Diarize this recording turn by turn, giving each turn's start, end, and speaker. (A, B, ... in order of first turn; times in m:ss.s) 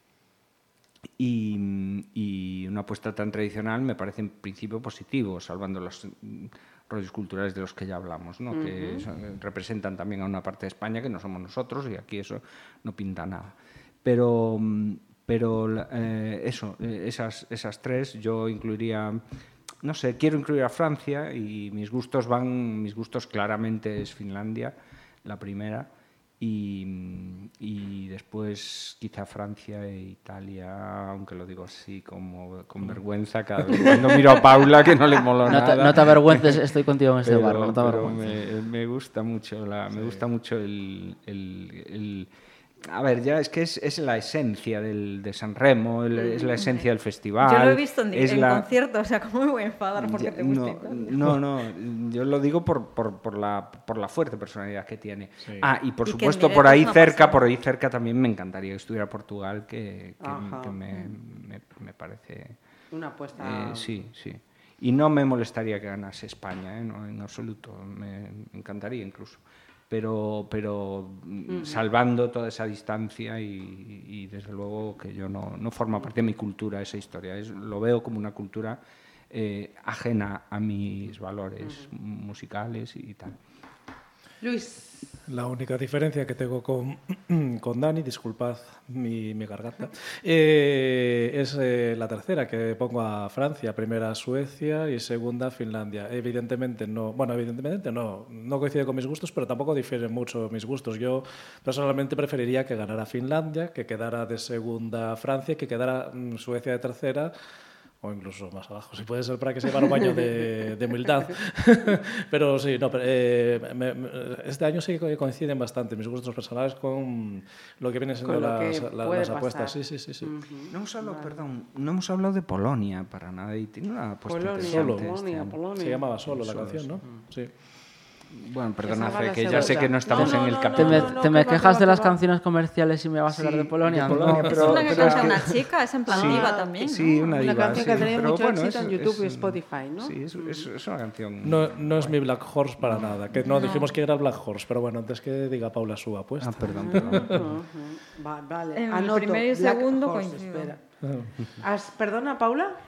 0:01.2-0:19.2 A
0:08.5-0:09.0 B
0:19.8-0:25.9 A
0:26.4-0:36.6 A
0:35.5-0:38.2 C
0:37.2-0:42.3 A
0:42.8-0:48.7 A
0:46.1-0:46.5 B
0:46.6-0:46.8 D
0:47.4-0:51.2 D
0:50.0-1:02.6 A
0:56.0-0:57.4 D
1:00.2-1:00.8 B
1:00.9-1:01.1 D
1:02.9-1:04.0 B
1:03.4-1:18.8 A
1:11.5-1:11.8 B
1:19.3-1:23.3 A
1:21.6-1:21.9 B
1:24.4-1:25.1 B
1:25.3-1:47.3 E
1:48.0-2:00.3 E
1:58.2-2:01.4 B
2:00.7-2:05.6 A
2:04.3-2:06.1 B
2:04.6-2:05.1 E
2:05.8-2:07.5 E
2:06.4-2:06.9 A
2:08.4-2:11.2 A
2:08.8-2:12.2 B
2:09.6-2:14.6 C
2:13.4-2:22.2 A
2:14.0-2:14.9 E
2:14.6-2:18.0 D
2:16.1-2:20.7 B
2:21.4-2:27.4 E
2:22.8-2:23.1 A
2:23.4-2:24.0 D
2:26.4-2:27.5 A
2:26.7-2:30.8 B
2:28.7-2:30.7 D
2:31.0-2:31.3 E
2:31.6-2:32.8 B